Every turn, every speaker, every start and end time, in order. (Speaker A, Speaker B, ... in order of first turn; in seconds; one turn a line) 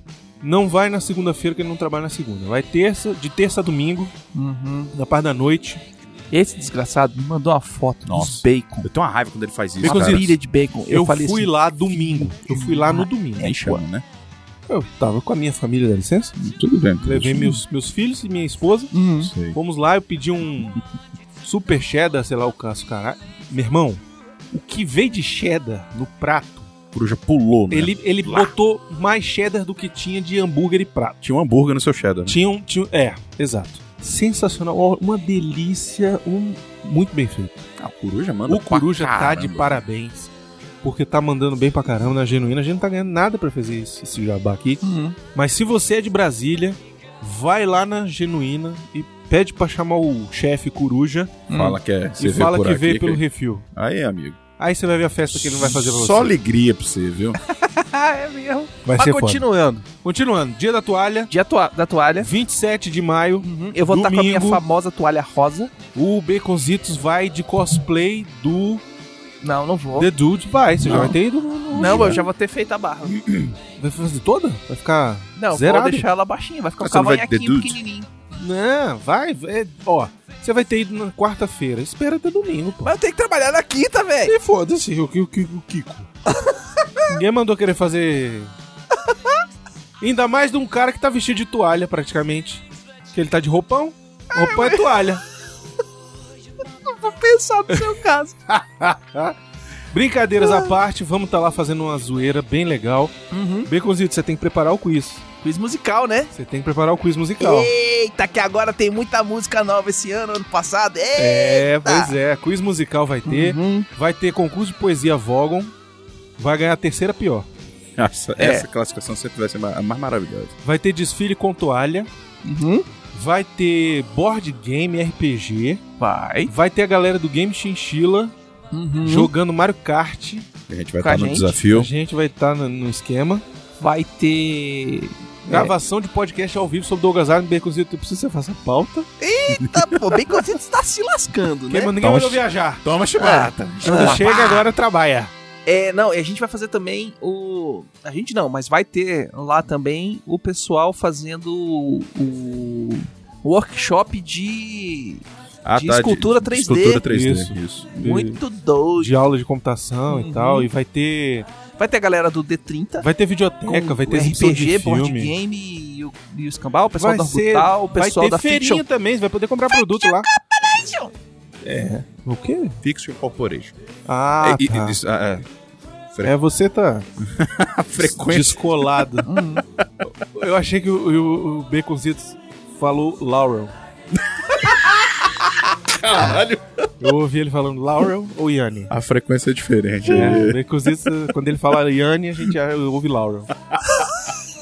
Speaker A: 0.4-4.1
Speaker B: 4.3-4.9
Speaker A: 4.9-5.8
Speaker B: 6.3-8.9
Speaker C: 8.1-10.3
Speaker B: 9.8-13.8
Speaker A: 9.8-10.4
Speaker A: 10.9-13.6
Speaker C: 13.4-14.0
Speaker A: 14.7-16.3
Speaker C: 16.4-17.6
Speaker A: 17.0-18.9
Speaker B: 18.9-19.3
Speaker C: 19.2-19.6
Speaker A: 19.4-20.8
Speaker A: 21.4-26.7
Speaker C: 26.9-28.5
Speaker A: 27.7-31.2
Speaker C: 31.2-32.4
Speaker A: 32.3-37.5
Speaker C: 37.8-39.8
Speaker A: 38.5-40.3
Speaker A: 40.8-51.5
Speaker B: 44.8-45.2
Speaker B: 51.5-51.8
Speaker C: 51.5-53.2
Speaker A: 52.2-53.7
Speaker C: 53.7-54.4
Speaker A: 54.6-56.3
Speaker C: 55.3-57.4
Speaker B: 57.4-59.9
Speaker A: 58.8-61.3
Speaker B: 61.3-62.3
Speaker A: 62.2-64.6
Speaker B: 63.4-65.7
Speaker A: 65.9-68.8
Speaker B: 69.4-70.1
Speaker A: 70.0-72.2
Speaker C: 70.8-71.2
Speaker C: 71.7-72.2
Speaker B: 71.8-73.2
Speaker C: 73.1-73.5
Speaker A: 73.8-76.1
Speaker B: 75.3-78.1
Speaker C: 76.8-77.8
Speaker A: 78.3-82.9
Speaker B: 82.8-84.3
Speaker A: 84.3-86.1
Speaker B: 86.3-87.1
Speaker A: 87.1-88.5
Speaker B: 88.9-89.4
Speaker A: 90.0-95.2
Speaker B: 94.3-94.9
Speaker B: 96.8-98.4
Speaker A: 98.5-99.4
Speaker A: 99.9-105.2
Speaker B: 100.4-100.7
Speaker B: 103.3-103.7
Speaker B: 105.4-106.3
Speaker A: 106.3-107.7
Speaker B: 107.4-112.2
Speaker A: 111.2-115.7
Speaker B: 113.2-113.9
Speaker A: 116.4-117.5
Speaker C: 118.0-120.5
Speaker B: 118.4-118.7
Speaker A: 120.6-122.1
Speaker B: 122.4-122.8
Speaker A: 123.1-125.8
Speaker B: 126.0-126.5
Speaker A: 126.5-128.3
Speaker B: 128.7-129.3
Speaker A: 129.0-130.5
Speaker C: 130.7-131.9
Speaker B: 131.0-131.5
Speaker A: 131.7-133.4
Speaker B: 133.8-135.7
Speaker A: 135.4-139.1
Speaker B: 139.2-141.9
Speaker A: 141.7-142.8
Speaker C: 142.0-144.3
Speaker B: 143.2-144.6
Speaker A: 143.8-145.3
Speaker B: 145.7-155.2
Speaker C: 155.6-158.0
Speaker B: 155.7-157.0
Speaker A: 157.0-158.4
Speaker B: 158.0-159.1
Speaker A: 159.0-161.5
Speaker B: 160.1-160.7
Speaker B: 161.8-163.1
Speaker A: 163.0-165.3
Speaker B: 163.6-168.8
Speaker A: 167.0-170.3
Speaker B: 170.5-171.1
Speaker A: 171.6-172.8
Speaker C: 172.8-173.7
Speaker A: 174.1-175.0
Speaker C: 174.4-175.4
Speaker A: 176.2-177.1
Speaker C: 177.2-179.0
Speaker A: 178.1-179.3
Speaker B: 179.2-179.6
Speaker A: 180.2-183.7
Speaker C: 184.5-186.9
Speaker A: 187.0-188.9
Speaker C: 188.9-190.6
Speaker A: 190.0-193.5
Speaker B: 190.2-190.4